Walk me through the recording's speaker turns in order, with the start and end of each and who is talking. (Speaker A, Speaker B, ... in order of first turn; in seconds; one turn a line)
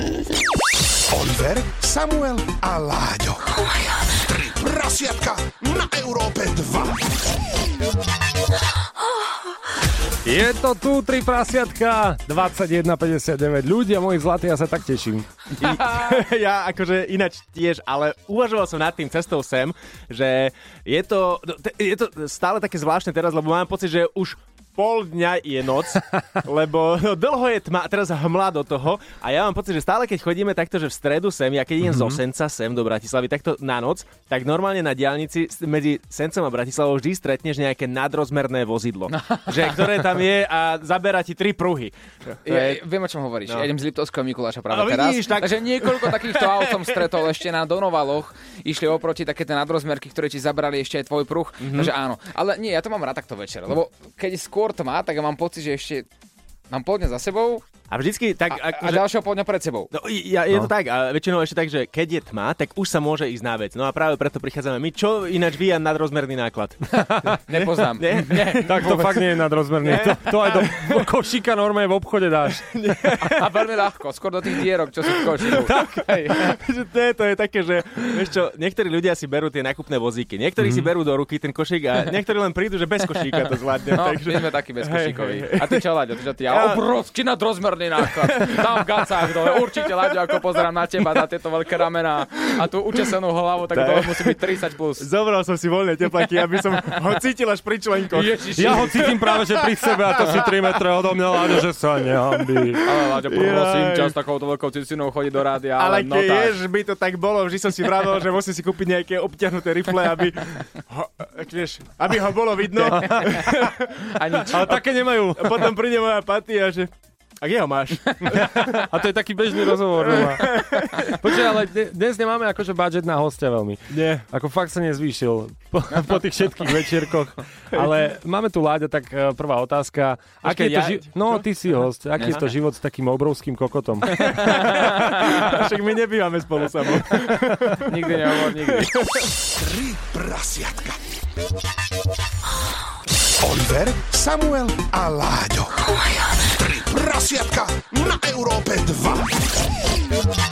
Speaker A: 1.1-7.0
Speaker B: 10.2-15.3
Speaker C: 15.6-42.8
Speaker B: 31.8-32.2
Speaker D: 39.1-39.8
Speaker D: 42.4-56.1
Speaker C: 44.7-47.3
Speaker C: 51.6-51.9
Speaker D: 56.7-57.6
Speaker C: 57.9-59.0
Speaker D: 58.5-59.9
Speaker C: 59.9-69.2
Speaker D: 67.5-69.2
Speaker B: 68.6-72.7
Speaker C: 69.8-71.1
Speaker C: 72.7-73.5
Speaker D: 73.2-76.6
Speaker C: 75.4-85.8
Speaker B: 80.6-80.9
Speaker D: 83.9-95.1
Speaker C: 86.5-86.8
Speaker C: 88.1-90.1
Speaker C: 93.7-94.4
Speaker C: 95.0-100.0
Speaker D: 98.1-99.1
Speaker B: 98.6-103.0
Speaker D: 100.1-100.5
Speaker C: 102.3-104.2
Speaker D: 102.8-106.6
Speaker C: 105.8-114.8
Speaker B: 112.8-113.7
Speaker D: 112.8-114.8
Speaker B: 114.5-115.8
Speaker C: 115.4-118.8
Speaker D: 118.1-118.8
Speaker B: 118.3-134.6
Speaker C: 120.0-121.2
Speaker D: 120.2-121.1
Speaker C: 123.9-124.2
Speaker C: 130.4-131.4
Speaker C: 132.2-132.5
Speaker C: 134.1-139.3
Speaker D: 134.1-135.6
Speaker D: 137.1-138.9
Speaker A: 139.6-141.0
Speaker A: 143.4-149.5